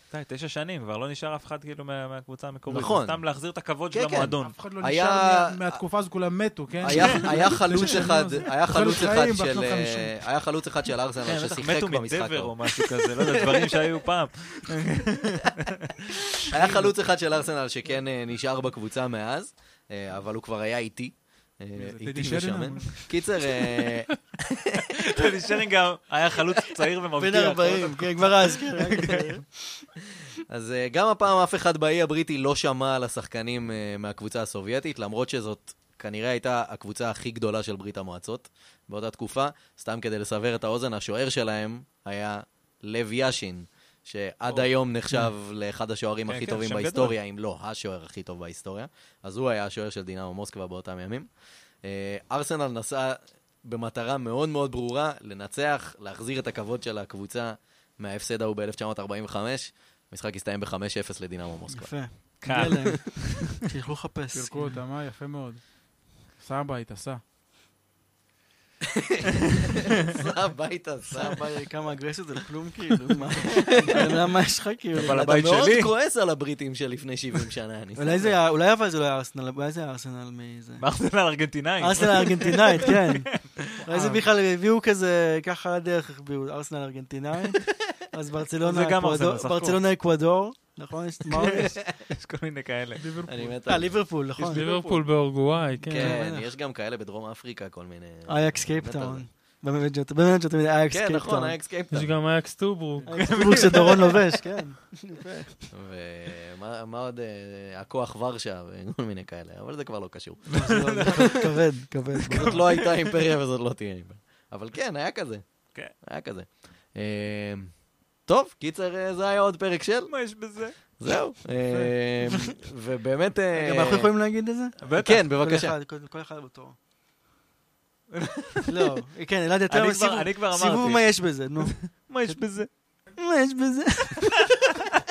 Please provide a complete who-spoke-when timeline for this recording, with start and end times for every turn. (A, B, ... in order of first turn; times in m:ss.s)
0:00.1-0:04.5 A
0:02.7-0:03.2 B
0:03.9-0:05.8 B
0:04.4-0:10.2 C
0:06.8-0:13.8 B
0:11.2-0:16.4 A
0:16.4-0:25.3 B
0:16.6-0:16.9 C
0:21.7-0:23.5 C
0:24.9-0:29.4 A
0:27.2-0:29.8 D
0:30.5-0:51.3 B
0:46.3-0:47.1 A
0:51.8-1:02.6 B
1:01.7-1:04.7 D
1:02.4-1:03.6 A
1:04.3-1:05.6 C
1:06.4-1:07.2 C
1:08.8-1:11.6 B
1:11.1-1:15.4 D
1:13.5-1:14.1 B
1:14.9-1:15.9 A
1:15.0-1:18.4 B
1:18.0-1:20.8 D
1:20.8-1:23.7 A
1:21.8-1:23.3 D
1:23.8-1:31.8 D
1:23.8-1:24.3 C
1:28.6-1:29.8 A
1:31.3-1:33.1 A
1:32.9-1:33.6 C
1:33.2-1:34.0 B
1:33.6-1:34.7 D
1:34.4-1:36.2 E
1:34.5-1:35.1 C
1:35.8-1:36.5 D
1:35.9-1:39.2 B
1:38.3-1:41.6 D
1:40.9-1:42.2 B
1:41.9-1:43.6 E
1:43.0-1:43.3 C
1:43.0-1:45.7 D
1:43.1-1:44.2 A
1:45.7-1:50.4 B
1:50.5-1:51.6 A
1:50.5-1:52.6 D
1:52.3-1:53.1 A
1:52.3-1:55.4 B
1:56.0-1:57.7 B
1:58.3-2:00.1 B
2:00.1-2:00.8 A
2:01.0-2:04.1 B
2:01.6-2:01.9 C
2:03.5-2:06.8 D
2:04.8-2:05.3 A
2:05.0-2:05.7 B
2:08.1-2:09.0 A
2:08.7-2:12.4 D
2:09.7-2:12.7 A
2:13.2-2:14.6 D